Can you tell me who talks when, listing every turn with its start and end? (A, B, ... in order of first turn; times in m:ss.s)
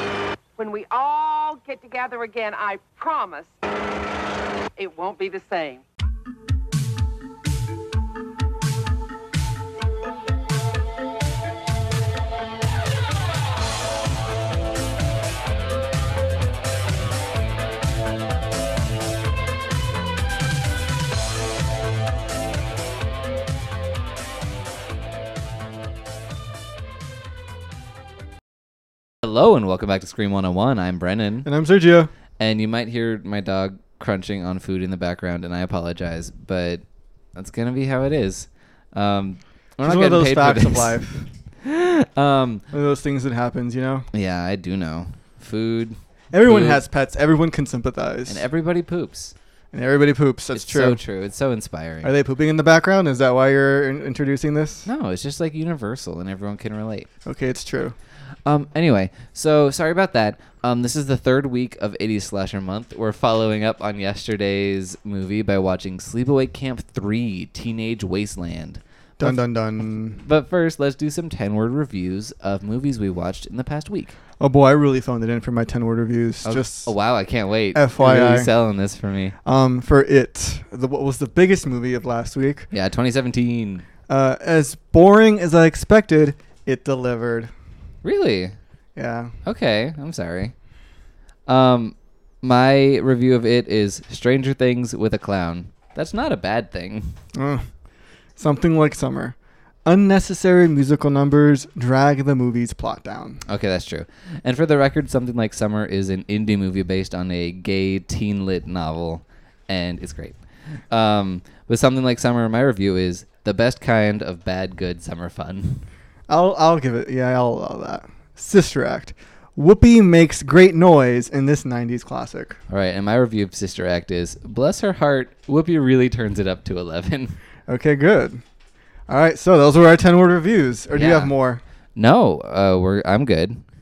0:00.6-0:03.6 A
0:04.8-0:05.8 A
0:29.2-0:31.5 B
0:31.4-0:32.1 C
0:32.4-0:36.8 B
0:37.3-0:41.0 B
0:39.8-0:41.3 C
0:41.6-0:42.6 B
0:42.7-0:44.0 C
0:44.1-0:46.8 B
0:46.3-0:48.4 C
0:48.3-0:49.3 B
0:49.7-0:51.0 C
0:50.5-0:52.1 B
0:52.0-0:54.9 C
0:54.8-0:57.1 B
0:57.2-0:58.0 C
0:58.4-1:09.4 B
1:09.2-1:10.2 C
1:10.2-1:14.2 B
1:14.4-1:16.9 C
1:16.4-1:19.3 B
1:17.7-1:18.5 C
1:19.4-1:22.7 C
1:22.7-1:23.8 B
1:24.1-1:27.5 C
1:28.0-1:28.6 B
1:29.0-1:29.3 C
1:29.4-1:30.5 B
1:31.5-1:37.2 B
1:37.3-1:37.7 C
1:38.4-1:43.4 C
1:43.4-1:55.8 B
1:56.3-2:02.6 C
2:02.7-2:07.4 B
2:07.7-2:08.4 C
2:09.1-2:11.6 C
2:10.9-2:11.3 B
2:12.0-2:13.6 B